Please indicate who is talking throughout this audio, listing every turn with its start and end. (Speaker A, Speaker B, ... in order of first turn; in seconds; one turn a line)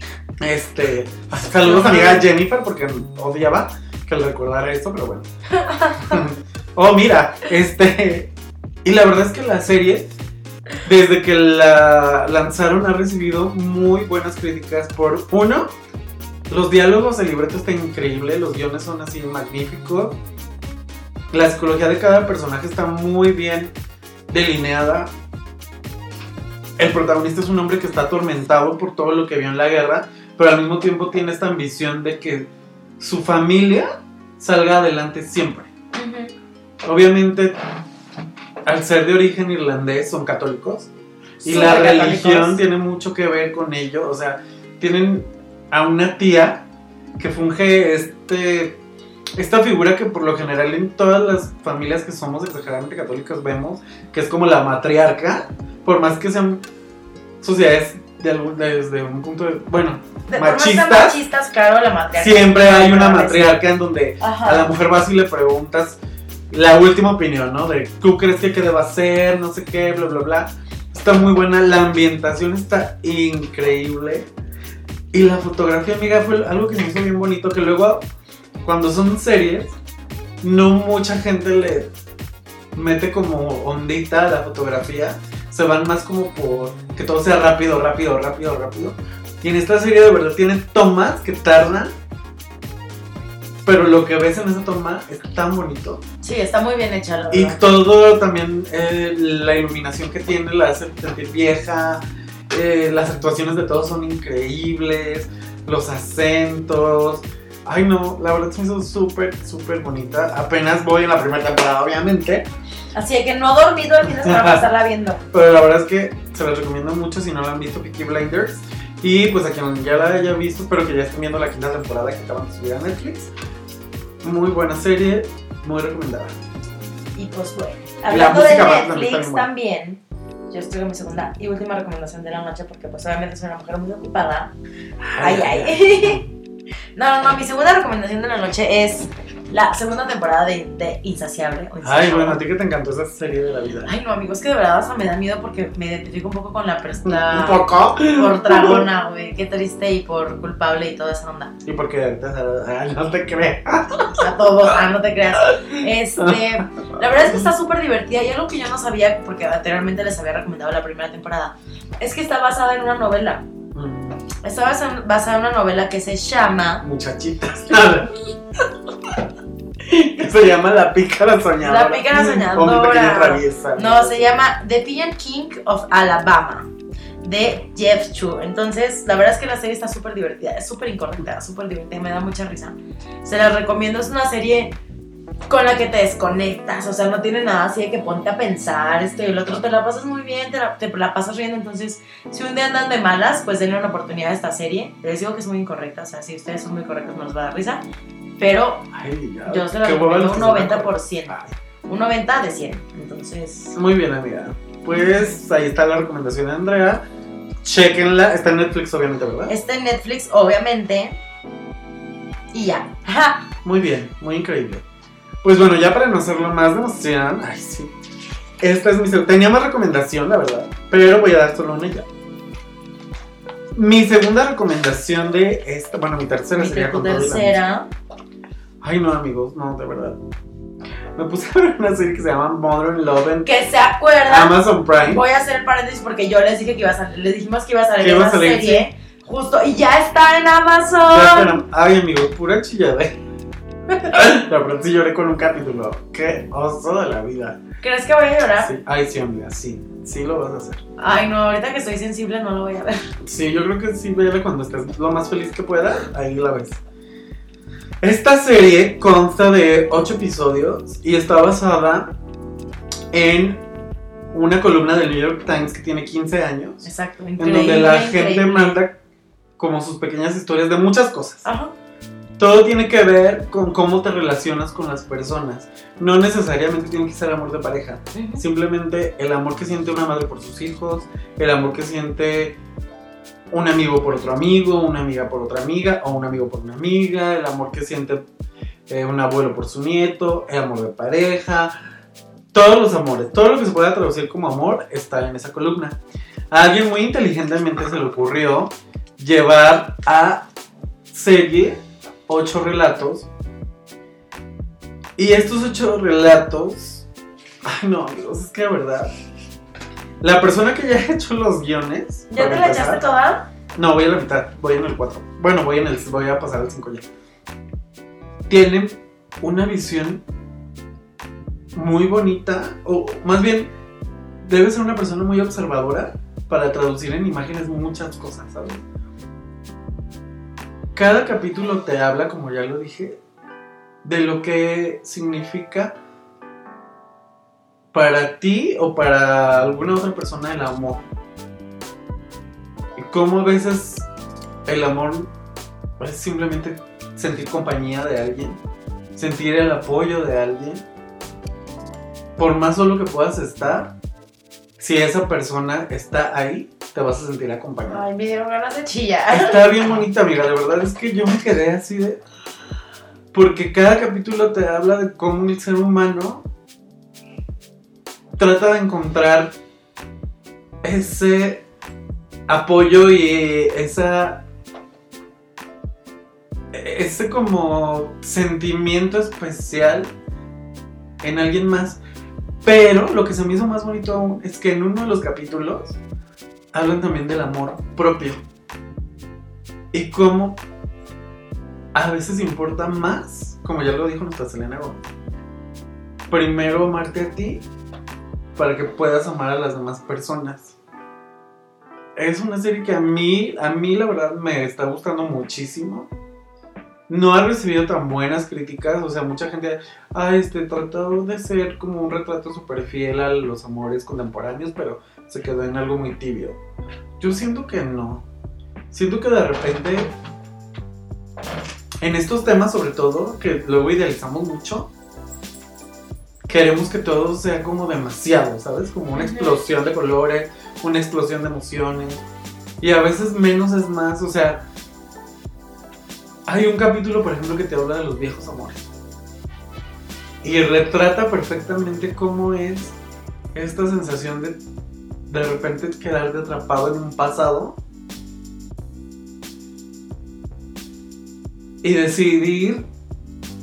Speaker A: 0.4-5.3
Speaker B: 1.6-2.2
Speaker B: 5.6-6.2
Speaker A: 6.0-8.3
Speaker A: 8.8-10.1
Speaker A: 10.8-15.7
Speaker A: 16.5-20.2
Speaker A: 21.3-23.7
Speaker A: 24.3-25.1
Speaker A: 26.8-32.5
Speaker A: 33.0-35.7
Speaker B: 35.9-36.3
Speaker A: 36.8-37.5
Speaker A: 38.6-40.9
Speaker A: 41.4-46.6
Speaker B: 41.4-42.6
Speaker A: 47.2-48.8
Speaker A: 49.4-56.6
Speaker A: 57.4-61.2
Speaker B: 60.3-63.6
Speaker A: 62.1-66.0
Speaker B: 64.2-64.7
Speaker A: 66.5-74.3
Speaker A: 75.1-78.0
Speaker A: 78.6-79.8
Speaker A: 80.4-81.9
Speaker A: 82.7-91.9
Speaker A: 93.6-96.0
Speaker B: 96.2-97.6
Speaker A: 97.3-112.5
Speaker B: 112.9-115.2
Speaker A: 114.0-114.6
Speaker A: 115.3-123.3
Speaker A: 124.2-126.4
Speaker B: 127.2-134.5
Speaker A: 128.1-129.5
Speaker A: 135.0-136.3
Speaker B: 135.2-136.2
Speaker B: 136.9-142.4
Speaker A: 141.8-143.9
Speaker B: 143.9-151.5
Speaker A: 147.1-148.8
Speaker A: 151.7-154.3
Speaker B: 154.2-163.4
Speaker A: 155.4-156.4
Speaker A: 156.9-157.5
Speaker A: 163.7-164.2
Speaker B: 164.4-166.8
Speaker A: 166.8-168.3
Speaker A: 169.8-174.3
Speaker B: 171.6-176.7
Speaker B: 177.2-184.7
Speaker B: 185.5-197.8
Speaker B: 198.4-198.9
Speaker A: 198.9-201.5
Speaker B: 199.4-201.3
Speaker B: 201.9-203.8
Speaker A: 203.7-207.0
Speaker B: 204.9-205.4
Speaker A: 207.6-209.5
Speaker B: 209.5-211.2
Speaker B: 212.5-213.5
Speaker A: 213.6-214.8
Speaker A: 215.4-217.9
Speaker A: 218.6-222.1
Speaker A: 223.7-227.6
Speaker B: 226.6-227.9
Speaker A: 228.8-230.2
Speaker A: 231.1-233.5
Speaker B: 233.4-241.6
Speaker A: 234.3-235.2
Speaker A: 238.0-238.9
Speaker A: 241.1-243.2
Speaker B: 243.9-244.2
Speaker A: 244.1-247.6
Speaker B: 247.8-248.7
Speaker A: 248.6-250.8
Speaker B: 251.0-253.0
Speaker A: 253.2-256.8
Speaker A: 258.0-262.1
Speaker A: 263.1-263.6
Speaker A: 264.3-266.9
Speaker B: 266.8-268.8
Speaker A: 267.4-268.9
Speaker A: 269.6-271.4
Speaker B: 271.4-271.7
Speaker A: 272.4-282.6
Speaker B: 278.1-278.4
Speaker A: 283.5-288.2
Speaker A: 288.9-291.7
Speaker A: 292.5-295.9
Speaker A: 296.5-300.5
Speaker A: 301.1-303.3
Speaker A: 305.1-307.1
Speaker A: 307.6-309.1
Speaker A: 310.2-313.0
Speaker B: 312.3-313.4
Speaker A: 313.8-317.0
Speaker A: 318.5-320.2
Speaker A: 321.7-323.7
Speaker A: 324.4-328.8
Speaker A: 330.9-333.2
Speaker A: 334.0-335.9
Speaker A: 337.9-341.1
Speaker A: 342.9-344.1
Speaker A: 344.6-345.3
Speaker A: 346.0-348.6
Speaker A: 349.1-350.8
Speaker A: 352.4-353.9
Speaker A: 354.8-358.1
Speaker B: 357.9-360.0
Speaker A: 359.3-362.2
Speaker A: 363.3-366.4
Speaker A: 368.4-369.5
Speaker A: 370.8-371.6
Speaker A: 372.5-374.4
Speaker A: 376.7-380.1
Speaker A: 381.2-382.0
Speaker A: 382.6-386.0
Speaker A: 386.7-388.4
Speaker A: 389.9-390.6
Speaker A: 391.9-395.0
Speaker A: 396.3-397.6
Speaker A: 398.5-400.8
Speaker A: 402.1-406.1
Speaker A: 407.1-416.6
Speaker A: 417.2-418.2
Speaker A: 418.9-420.1
Speaker A: 422.0-424.9
Speaker A: 426.5-432.2
Speaker B: 429.1-429.6
Speaker A: 432.8-434.6
Speaker A: 436.5-438.9
Speaker A: 440.4-442.9
Speaker A: 443.5-444.6
Speaker A: 445.3-447.8
Speaker A: 451.8-452.9